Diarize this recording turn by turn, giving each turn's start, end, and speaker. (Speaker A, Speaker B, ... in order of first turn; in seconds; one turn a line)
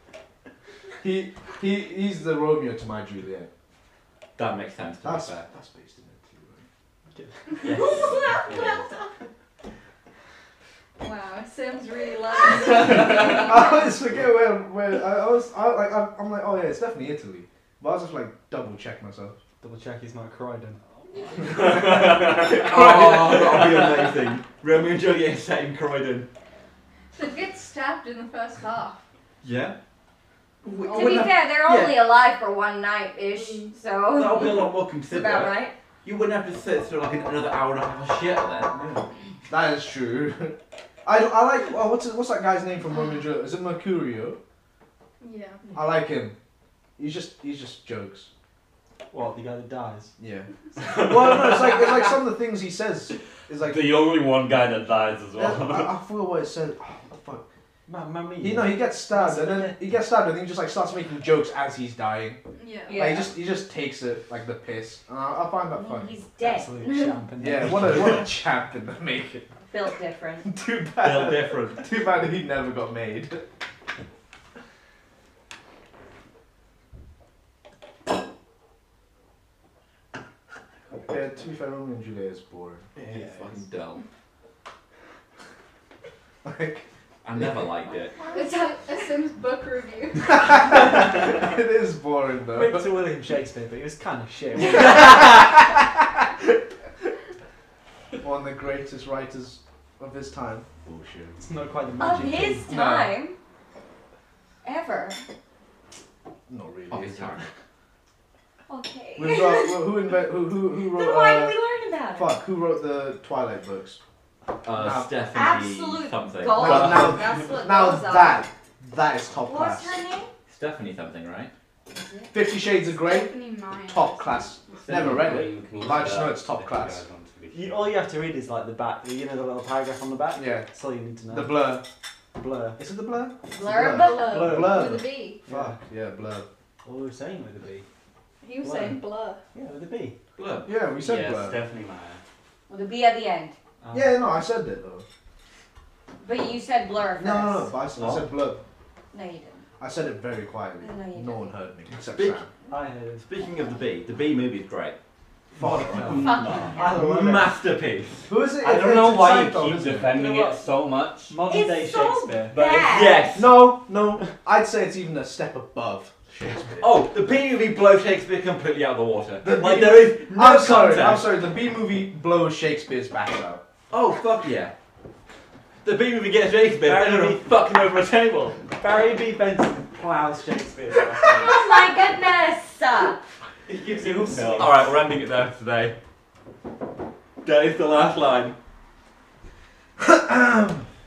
Speaker A: 1.0-3.5
Speaker B: 4.4-5.5
Speaker A: 5.0-6.7
Speaker C: 7.1-7.4
Speaker D: 7.6-8.8
Speaker E: 7.6-8.9
Speaker F: 11.0-13.8
Speaker A: 12.9-19.4
Speaker C: 19.6-20.8
Speaker B: 21.5-26.3
Speaker D: 22.2-23.9
Speaker F: 27.1-29.0
Speaker B: 29.4-29.8
Speaker B: 30.6-32.0
Speaker F: 30.7-31.2
Speaker E: 30.9-35.7
Speaker F: 33.3-33.7
Speaker B: 34.1-39.0
Speaker A: 38.8-44.4
Speaker F: 45.2-45.6
Speaker A: 45.7-46.4
Speaker A: 47.0-48.3
Speaker C: 49.1-50.1
Speaker A: 50.2-54.0
Speaker D: 53.6-56.0
Speaker A: 55.4-57.5
Speaker C: 57.9-59.9
Speaker A: 58.4-62.4
Speaker F: 62.5-63.1
Speaker E: 62.9-63.3
Speaker A: 62.9-66.2
Speaker E: 65.7-67.2
Speaker C: 66.4-68.3
Speaker A: 67.4-69.5
Speaker E: 69.7-70.5
Speaker A: 70.4-73.4
Speaker B: 71.0-71.9
Speaker A: 81.0-83.0
Speaker B: 83.0-84.0
Speaker C: 83.1-83.4
Speaker A: 86.4-86.8
Speaker B: 87.2-88.2
Speaker E: 88.2-88.5
Speaker F: 88.3-90.8
Speaker A: 90.3-92.9
Speaker C: 92.5-95.1
Speaker A: 94.6-95.9
Speaker A: 98.2-101.4
Speaker C: 101.4-102.7
Speaker E: 102.0-103.3
Speaker A: 102.1-103.1
Speaker E: 104.6-105.2
Speaker A: 106.5-107.5
Speaker B: 106.9-107.4
Speaker E: 108.7-110.0
Speaker A: 109.2-111.6
Speaker E: 110.8-112.3
Speaker A: 112.1-114.0
Speaker B: 114.6-117.2
Speaker A: 114.7-115.1
Speaker E: 115.3-118.4
Speaker A: 116.5-119.9
Speaker E: 119.4-120.3
Speaker B: 120.5-121.5
Speaker E: 121.9-122.3
Speaker A: 122.3-127.0
Speaker F: 122.8-124.6
Speaker D: 124.9-128.0
Speaker B: 124.9-125.4
Speaker C: 127.5-131.7
Speaker A: 130.3-130.7
Speaker A: 131.3-131.8
Speaker C: 132.3-132.8
Speaker A: 132.8-136.5
Speaker E: 133.5-134.5
Speaker F: 133.8-135.4
Speaker C: 134.2-135.8
Speaker C: 136.8-137.8
Speaker F: 138.4-139.4
Speaker C: 138.6-139.0
Speaker C: 139.5-140.1
Speaker B: 140.4-140.7
Speaker A: 140.6-141.6
Speaker D: 141.0-142.2
Speaker E: 142.7-143.6
Speaker C: 143.8-144.2
Speaker A: 143.9-145.0
Speaker E: 146.2-147.7
Speaker A: 147.2-148.6
Speaker D: 148.0-148.2
Speaker E: 149.1-149.6
Speaker A: 149.8-152.5
Speaker E: 150.8-151.5
Speaker B: 152.1-152.4
Speaker C: 152.7-153.2
Speaker B: 153.2-154.9
Speaker C: 155.6-157.5
Speaker A: 155.6-156.1
Speaker B: 155.6-158.3
Speaker D: 156.1-156.8
Speaker E: 156.1-157.0
Speaker A: 158.2-160.1
Speaker D: 158.6-161.3
Speaker C: 160.0-160.7
Speaker C: 161.3-162.6
Speaker E: 161.4-163.3
Speaker D: 162.5-163.0
Speaker B: 162.8-163.7
Speaker A: 163.3-167.0
Speaker B: 166.8-171.3
Speaker A: 169.4-173.6
Speaker B: 173.9-174.7
Speaker B: 175.8-178.7
Speaker C: 176.8-177.5
Speaker C: 178.8-181.6
Speaker E: 181.2-183.2
Speaker C: 183.7-184.9
Speaker B: 184.2-185.9
Speaker B: 187.4-188.6
Speaker A: 190.0-190.8